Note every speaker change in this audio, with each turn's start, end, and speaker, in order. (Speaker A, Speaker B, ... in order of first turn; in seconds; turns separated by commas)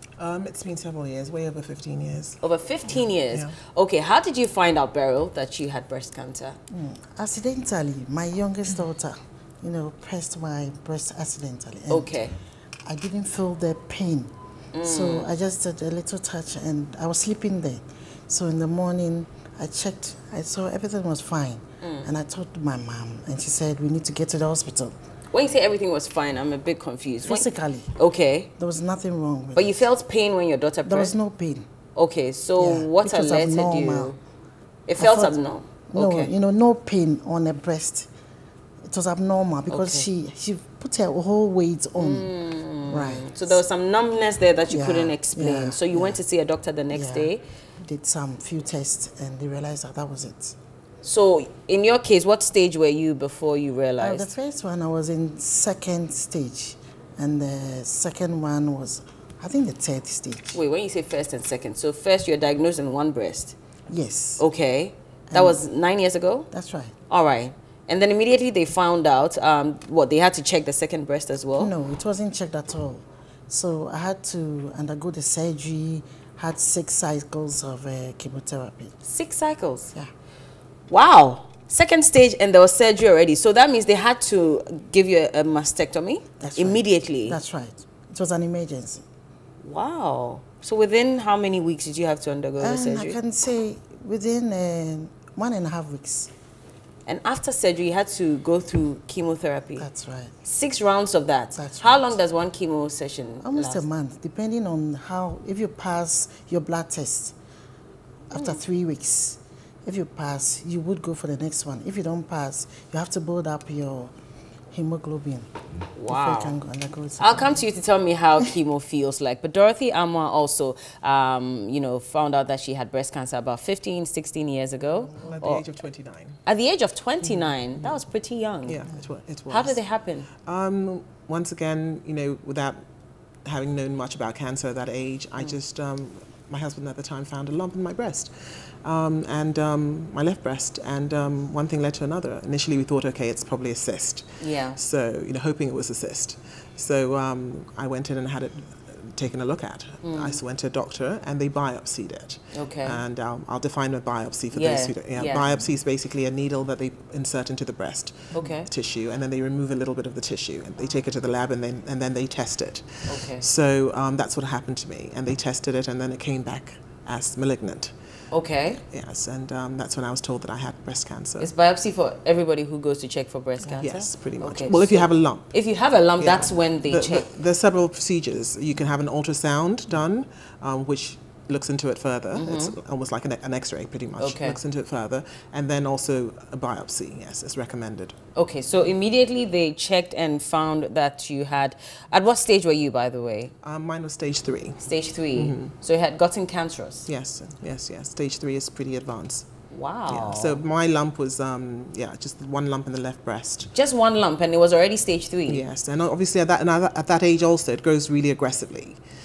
Speaker A: 0.2-2.4, Speaker B: 2.4-6.6, Speaker C: 6.7-12.2, Speaker B: 11.9-12.3, Speaker C: 12.8-14.3, Speaker B: 14.7-15.3, Speaker C: 14.8-24.9, Speaker B: 21.8-22.1, Speaker B: 25.3-28.5, Speaker C: 27.2-27.9, Speaker C: 28.6-29.9, Speaker B: 29.5-31.1, Speaker C: 30.9-31.6, Speaker B: 31.9-34.2, Speaker C: 32.6-34.1, Speaker B: 34.9-36.3, Speaker C: 35.0-35.4, Speaker C: 35.9-38.1, Speaker C: 38.9-42.3, Speaker B: 39.7-40.0, Speaker B: 42.0-47.4, Speaker C: 42.9-43.6, Speaker C: 44.7-46.2, Speaker C: 46.9-47.3, Speaker C: 47.8-50.5, Speaker B: 51.0-54.3, Speaker C: 54.0-60.6, Speaker B: 60.5-63.5, Speaker C: 63.9-64.4, Speaker B: 64.4-66.5, Speaker C: 65.3-65.6, Speaker C: 66.5-66.9, Speaker B: 67.1-71.7, Speaker C: 71.6-78.9, Speaker B: 79.0-79.9, Speaker B: 80.9-87.4, Speaker C: 86.4-89.0, Speaker B: 89.6-93.2, Speaker C: 92.6-96.3, Speaker B: 97.0-99.8, Speaker C: 99.8-100.3, Speaker B: 100.4-103.8, Speaker C: 101.5-102.1, Speaker C: 103.4-107.3, Speaker C: 108.3-114.1, Speaker B: 108.3-108.6, Speaker C: 114.7-115.5, Speaker B: 115.9-116.5, Speaker C: 116.1-117.7, Speaker B: 117.2-125.6, Speaker A: 125.2-126.4, Speaker B: 126.5-128.8, Speaker A: 127.2-128.0, Speaker A: 128.7-129.8, Speaker B: 129.5-130.3, Speaker A: 130.4-132.8, Speaker A: 133.4-167.9, Speaker B: 144.4-144.8, Speaker B: 150.0-150.4, Speaker B: 152.5-153.0, Speaker B: 154.5-155.7, Speaker B: 158.3-158.7, Speaker B: 163.1-163.4, Speaker B: 168.3-168.8, Speaker A: 168.9-171.5, Speaker B: 171.4-177.3, Speaker A: 173.8-175.5, Speaker A: 176.2-188.2, Speaker B: 182.3-182.7, Speaker B: 184.2-184.6, Speaker B: 188.3-193.5, Speaker A: 193.6-195.7, Speaker B: 194.8-197.1, Speaker A: 197.1-199.5, Speaker B: 199.7-200.6, Speaker A: 200.1-203.7, Speaker B: 203.7-205.6, Speaker A: 205.5-209.0